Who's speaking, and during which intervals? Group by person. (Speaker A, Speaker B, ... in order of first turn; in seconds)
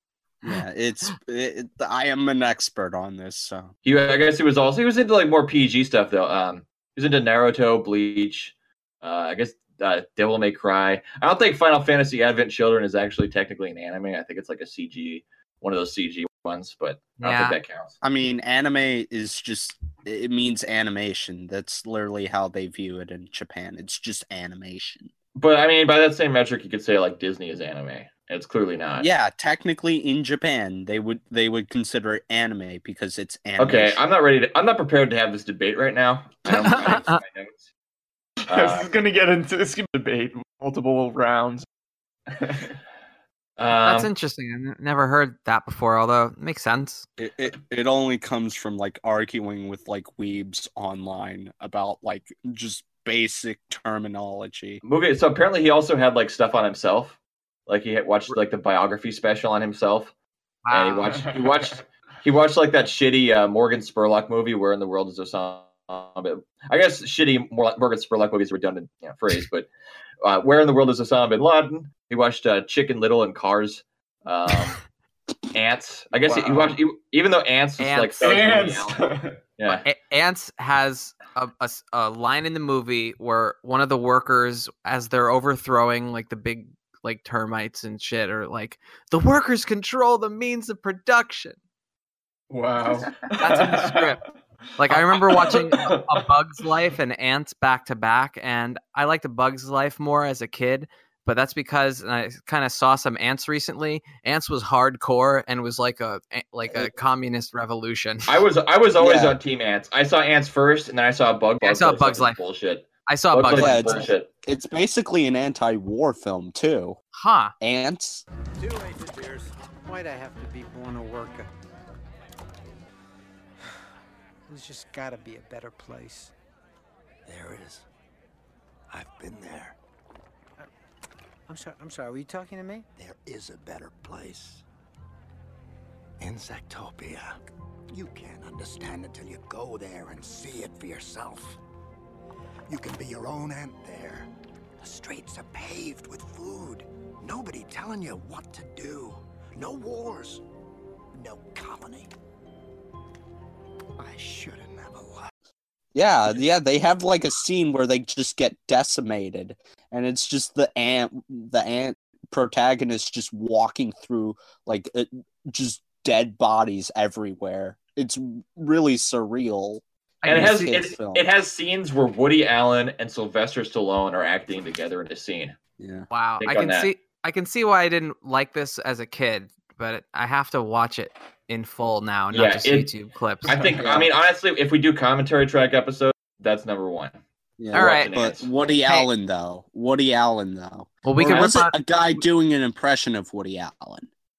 Speaker A: 0.4-3.7, 18.0-25.1, 29.0-34.0, 47.2-54.8, 109.0-109.3, 113.5-117.0, 117.6-118.2, 155.9-171.3, 175.8-176.1, 183.8-184.1, 187.6-194.1
Speaker B: 3.8-17.9, 25.4-29.1, 33.6-37.7, 38.5-38.9, 43.6-44.1, 54.8-60.1, 60.7-69.7, 70.2-74.8, 75.5-79.0, 79.6-79.8, 108.3-114.3, 170.2-175.6, 176.4-176.9, 182.3-182.9, 183.4-187.2, 187.7-188.5, 191.2-191.5
Speaker C: 17.2-17.6, 36.5-37.2, 43.8-47.0, 60.6-61.2, 77.8-78.2, 79.7-91.6, 93.4-94.2, 94.8-108.3, 111.6-112.4, 113.0-114.1, 117.2-117.5, 170.2-170.7, 176.1-183.5, 187.7-188.1, 191.0-191.7
Speaker D: 38.5-41.7, 42.3-42.8, 76.2-76.8, 78.2-79.3, 92.5-94.0, 94.9-96.2, 183.5-183.8
Speaker E: 118.6-121.5, 124.5-126.3, 131.5-132.9
Speaker F: 127.2-127.8, 128.9-129.8, 132.9-134.6, 136.2-137.4, 137.9-141.6, 142.7-144.3, 144.8-150.4, 151.2-152.1, 154.0-155.3